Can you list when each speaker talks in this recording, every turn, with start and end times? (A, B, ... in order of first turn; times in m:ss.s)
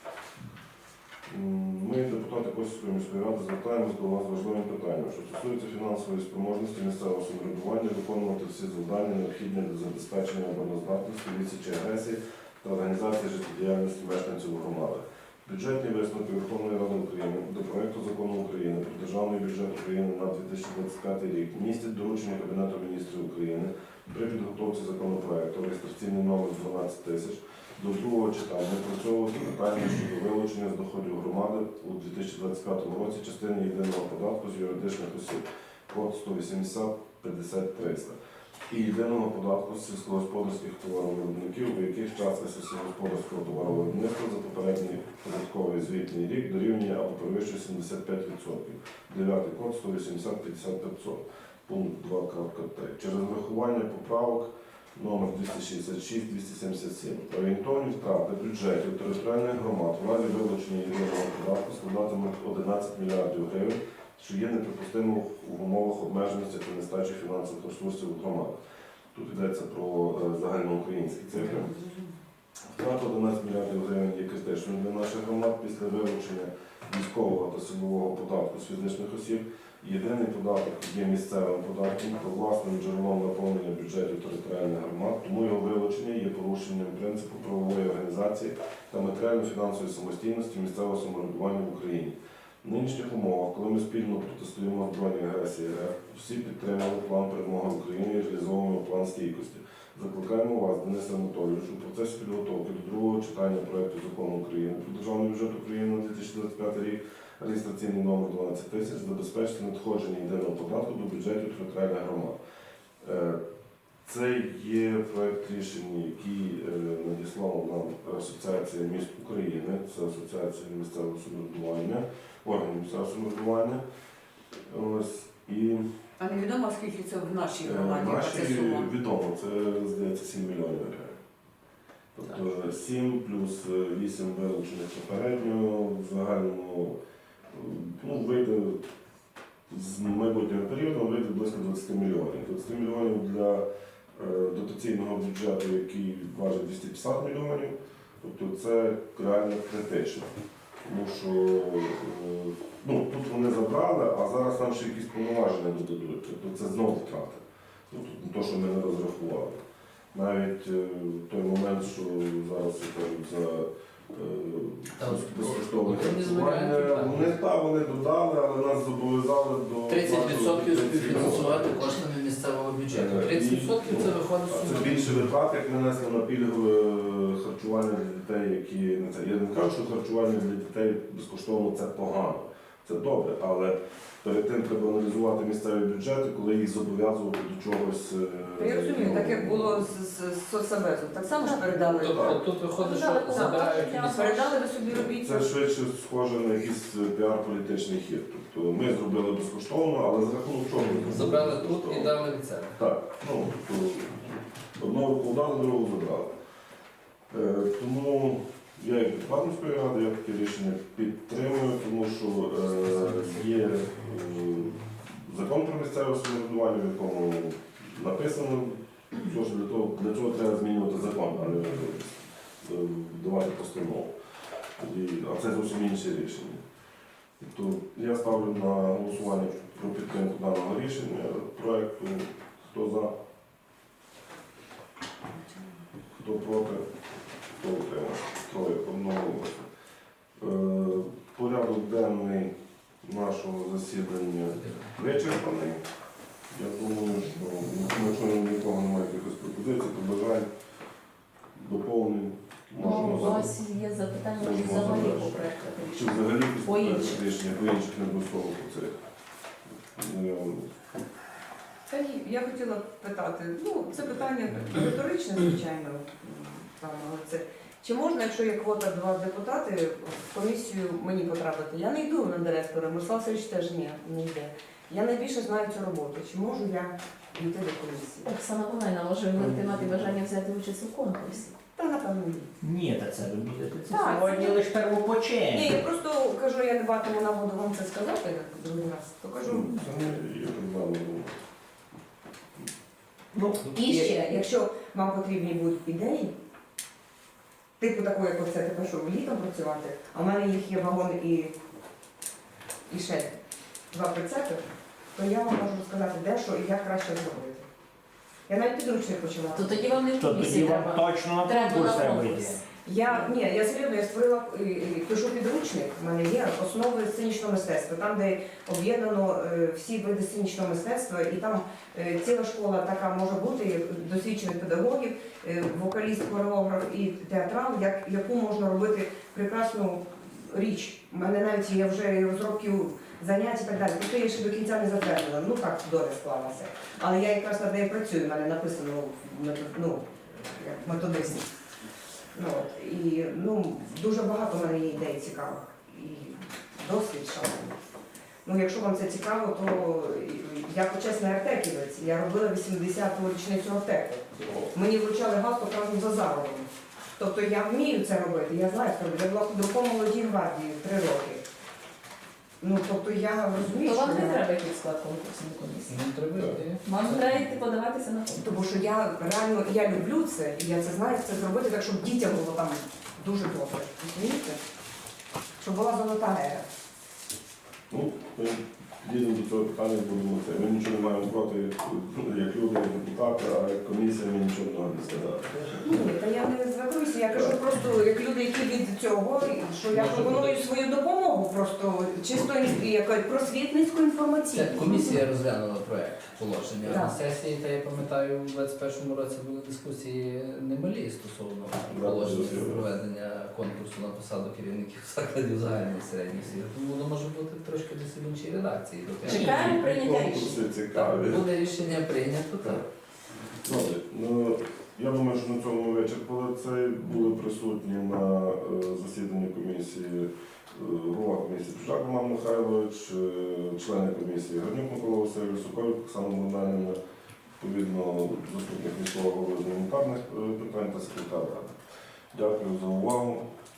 0:01.3-0:38.2 A
0:38.7-1:08.6 A
1:09.1-1:11.7 A
1:11.4-1:12.1 B
1:12.7-1:52.4 A
1:53.0-1:53.4 A
1:54.0-2:03.8 A
2:04.6-2:05.8 A
2:06.2-2:08.9 B
2:07.6-2:11.2 A
2:12.2-2:17.0 A
2:17.5-2:18.8 A
2:19.7-2:30.3 A
2:30.8-2:39.6 A
2:40.1-2:52.0 A
2:45.0-2:47.4 C
2:49.9-2:55.3 C
2:52.9-3:09.9 A
3:08.6-3:12.4 B
3:11.5-3:12.4 A
3:12.0-3:14.2 C
3:12.8-3:14.7 D
3:14.0-3:15.5 B
3:14.9-3:22.2 A
3:20.9-3:22.8 C
3:22.8-3:26.3 A
3:27.3-3:44.1 A
3:32.8-3:34.9 C
3:44.8-3:46.6 A
3:47.4-3:53.1 A
3:55.4-3:55.7 B
3:56.2-3:56.9 A
3:57.5-3:59.7 A
4:00.4-4:05.8 A
4:04.5-4:05.0 C
4:06.5-4:10.5 A
4:11.6-4:13.5 A
4:12.8-4:17.2 D
4:14.3-4:19.0 A
4:20.0-4:20.9 A
4:21.9-4:38.3 B
4:38.2-4:41.6 D
4:39.3-4:40.2 A
4:41.8-4:42.5 B
4:42.6-4:45.8 E
4:43.9-4:44.6 D
4:44.0-4:44.5 B
4:45.5-4:49.8 B
4:49.4-4:51.4 A
4:53.6-4:54.5 D
4:53.7-4:56.3 B
4:57.8-5:01.5 B
5:02.9-5:03.4 B
5:03.9-5:04.6 B
5:05.2-5:07.7 B
5:08.5-5:10.0 B
5:09.5-5:12.6 D
5:10.2-5:12.6 E
5:12.8-5:41.5 B
5:42.4-5:47.8 B
5:48.4-6:01.4 B
5:54.4-5:54.6 A
6:02.6-6:04.4 B
6:03.6-6:06.0 D
6:05.9-6:07.5 C
6:06.8-6:08.6 D
6:08.4-6:14.6 B
6:15.6-6:16.7 B
6:17.9-6:26.0 A
6:25.8-6:35.2 B
6:27.3-6:27.6 A
6:29.9-6:30.6 C
6:34.5-6:49.8 C
6:36.8-6:37.2 B
6:41.9-6:42.8 A
6:49.2-6:50.6 D
6:49.3-6:51.4 A
6:50.9-6:52.9 C
6:53.6-7:07.0 A
7:07.6-7:11.8 A
7:12.3-7:13.5 A